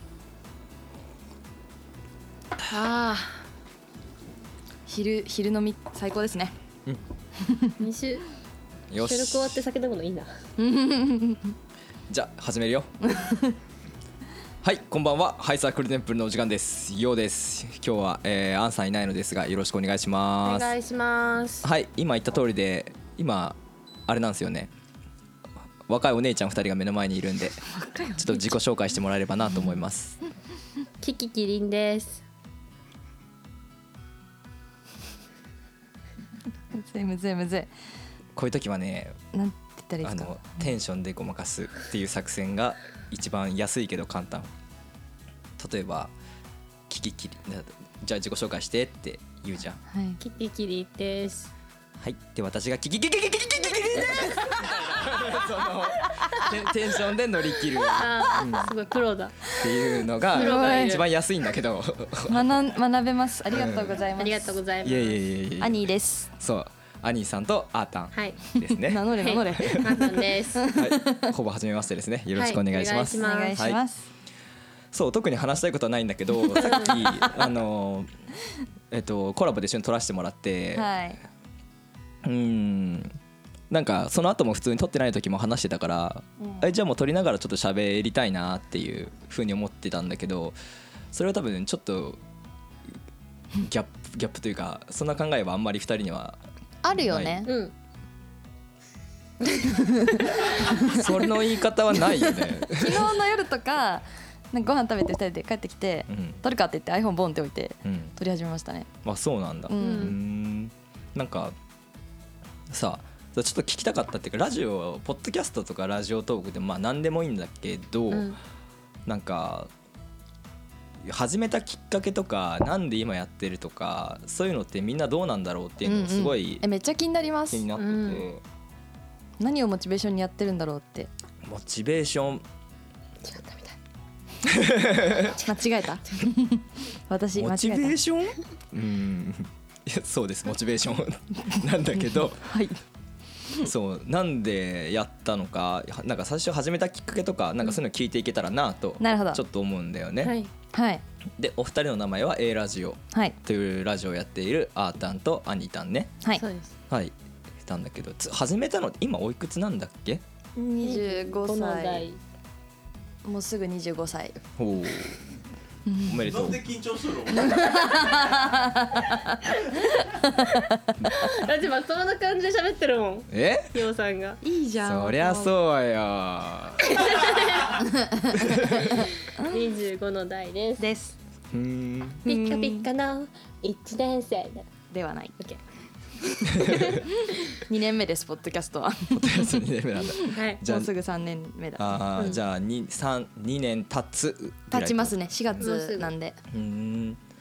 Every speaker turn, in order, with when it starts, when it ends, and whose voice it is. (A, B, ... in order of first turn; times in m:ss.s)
0:02.7-0:03.4 A
0:04.9-0:06.6 B
0:07.4-0:07.8 B
0:07.8-0:08.3 A
0:08.9-0:09.6 C
0:09.0-0:10.4 A
0:10.6-0:11.6 B
0:12.1-0:12.9 C
0:13.1-0:13.6 B
0:14.6-0:20.7 C
0:20.4-0:21.7 A
0:21.6-0:24.7 C
0:25.9-0:30.2 C
0:27.7-0:28.6 B
0:31.0-0:32.2 A
0:36.7-0:37.7 B
0:38.4-0:39.2 C
0:39.3-0:40.8 B
0:40.0-0:44.5 C
0:45.6-0:46.1 C
0:46.9-0:49.8 C
0:49.9-0:50.2 B
0:50.2-0:51.5 A
0:52.0-0:58.7 C
0:54.0-0:54.8 B
0:57.7-0:58.0 B
0:58.0-0:59.6 A
0:59.5-1:02.6 C
1:00.2-1:01.0 B
1:00.3-1:01.1 A
1:02.3-1:04.6 B
1:03.5-1:04.0 C
1:04.2-1:05.2 A
1:04.8-1:05.9 C
1:05.6-1:06.3 B
1:06.4-1:10.0 C
1:08.1-1:08.4 A
1:08.6-1:11.3 B
1:09.1-1:10.6 A
1:10.7-1:13.8 C
1:12.4-1:13.6 A
1:13.2-1:14.1 B
1:14.9-1:18.1 C
1:16.3-1:17.5 B
1:16.6-1:17.0 A
1:18.9-1:20.9 C
1:20.7-1:21.2 B
1:22.2-1:23.2 C
1:23.7-1:30.6 C
1:26.4-1:26.7 B
1:31.1-1:32.2 C
1:33.6-1:36.4 C
1:36.8-1:37.5 B
1:36.9-1:37.5 C
1:37.5-1:37.7 A
1:39.6-1:41.2 B
1:40.8-1:43.2 C
1:42.0-1:48.9 B
1:46.1-1:46.4 C
1:47.8-1:48.2 C
1:49.0-1:51.6 C
1:49.7-1:50.2 B
1:49.8-1:50.2 A
1:52.7-1:58.3 C
1:58.1-1:58.4 A
1:59.1-1:59.7 C
2:01.0-2:06.7 C
2:05.8-2:07.7 B
2:07.5-2:08.4 C
2:07.8-2:08.3 A
2:09.4-2:11.1 B
2:11.4-2:12.4 C
2:13.2-2:13.8 A
2:14.4-2:15.4 C
2:15.2-2:18.0 B
2:17.3-2:22.6 C
2:22.0-2:22.8 B
2:23.6-2:30.4 C
2:29.0-2:29.4 B
2:30.2-2:30.5 A
2:30.7-2:31.0 B
2:31.4-2:36.2 C
2:36.3-2:36.7 A
2:37.6-2:40.2 C
2:40.6-2:42.1 B
2:40.8-2:42.2 A
2:43.2-2:44.4 B
2:44.6-2:45.3 C
2:45.9-2:46.5 B
2:46.0-2:46.7 C
2:46.2-2:48.5 D
2:47.3-2:51.1 B
2:51.1-2:54.4 A
2:53.3-2:53.7 C
2:54.4-2:55.5 B
2:54.8-2:57.2 C
2:56.9-2:57.8 A
2:57.7-2:59.6 B
2:58.4-2:58.8 C
2:58.8-3:00.9 A
3:00.8-3:01.2 B
3:01.5-3:02.3 C
3:02.3-3:02.9 B
3:02.3-3:04.7 A
3:04.9-3:05.4 B
3:06.2-3:07.1 A
3:06.6-3:07.0 C
3:07.0-3:12.0 B
3:09.1-3:10.9 C
3:10.3-3:10.6 A
3:11.8-3:15.7 C
3:14.7-3:16.4 B
3:15.6-3:16.1 A
3:16.5-3:17.2 C